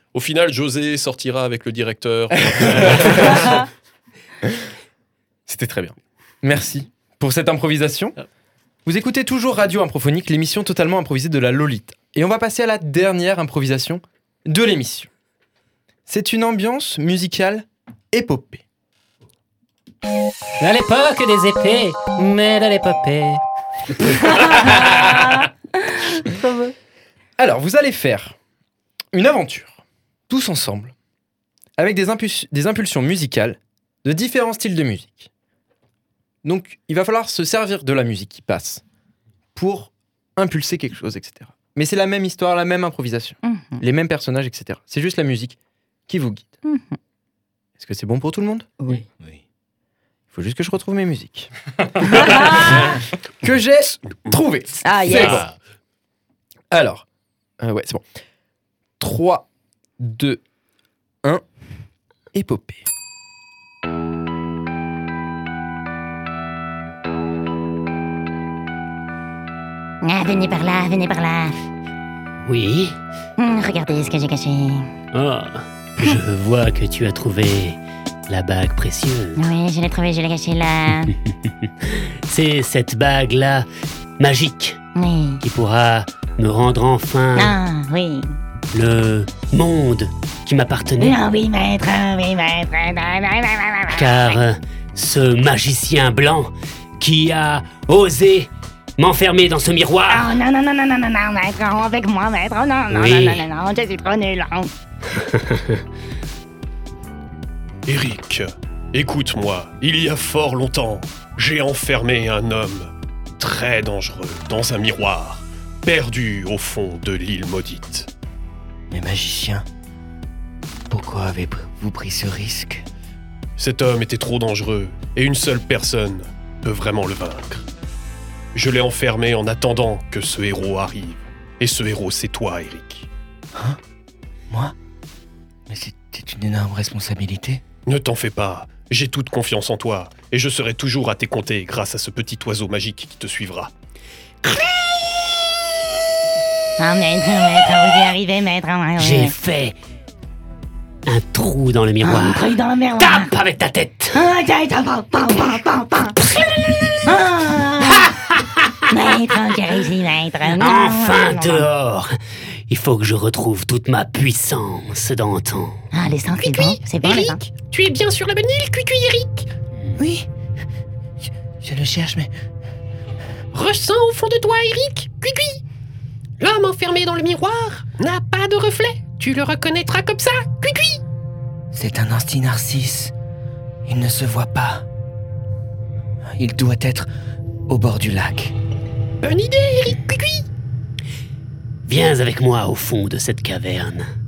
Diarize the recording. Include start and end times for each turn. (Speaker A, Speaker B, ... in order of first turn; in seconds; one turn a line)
Speaker A: 0.1-3.5
Speaker B: 2.5-3.4
Speaker B: 5.5-8.2
Speaker B: 8.8-15.1
Speaker B: 16.1-18.6
Speaker C: 20.6-23.4
Speaker C: 24.2-25.4
Speaker B: 27.4-28.4
Speaker B: 29.1-29.8
Speaker B: 30.3-30.9
Speaker B: 31.8-35.3
Speaker B: 36.4-38.8
Speaker B: 39.5-45.6
Speaker D: 43.4-43.8
Speaker B: 46.1-46.5
Speaker D: 46.6-47.0
Speaker B: 47.8-48.7
Speaker B: 50.3-55.5
Speaker D: 52.1-52.9
Speaker D: 54.8-55.5
Speaker A: 55.1-55.5
Speaker B: 56.7-57.0
Speaker B: 57.6-58.0
Speaker B: 59.0-59.5
Speaker B: 60.0-60.4
Speaker B: 62.3-62.9
Speaker E: 70.0-71.6
Speaker C: 72.5-73.0
Speaker E: 73.4-74.9
Speaker C: 75.1-79.4
Speaker E: 79.4-81.1
Speaker C: 81.8-83.7
Speaker C: 84.2-84.8
Speaker E: 85.0-85.4
Speaker C: 85.4-87.6
Speaker E: 87.3-88.3
Speaker C: 88.7-91.2
Speaker E: 91.0-94.4
Speaker C: 93.9-100.3
Speaker E: 100.1-104.7
Speaker C: 102.9-103.5
Speaker C: 105.3-105.8
Speaker A: 107.9-118.1
Speaker F: 118.9-119.7
Speaker F: 120.9-122.8
Speaker A: 123.6-127.6
Speaker A: 128.5-133.1
Speaker F: 134.5-134.8
Speaker F: 135.7-137.6
Speaker A: 137.9-143.7
Speaker E: 146.8-149.3
Speaker C: 149.0-149.8
Speaker C: 151.1-154.2
Speaker E: 152.0-153.3
Speaker E: 154.1-156.2
Speaker E: 157.0-158.1
Speaker E: 158.9-161.7
Speaker C: 160.6-162.2
Speaker C: 162.7-165.8
Speaker E: 165.9-167.4
Speaker G: 166.4-169.5
Speaker F: 170.0-170.3
Speaker F: 171.6-172.3
Speaker G: 173.5-175.6
Speaker G: 176.4-181.0
Speaker F: 181.7-183.1
Speaker F: 183.9-184.9
Speaker F: 186.3-187.1
Speaker F: 187.7-188.5
Speaker G: 189.2-190.5
Speaker C: 191.9-194.1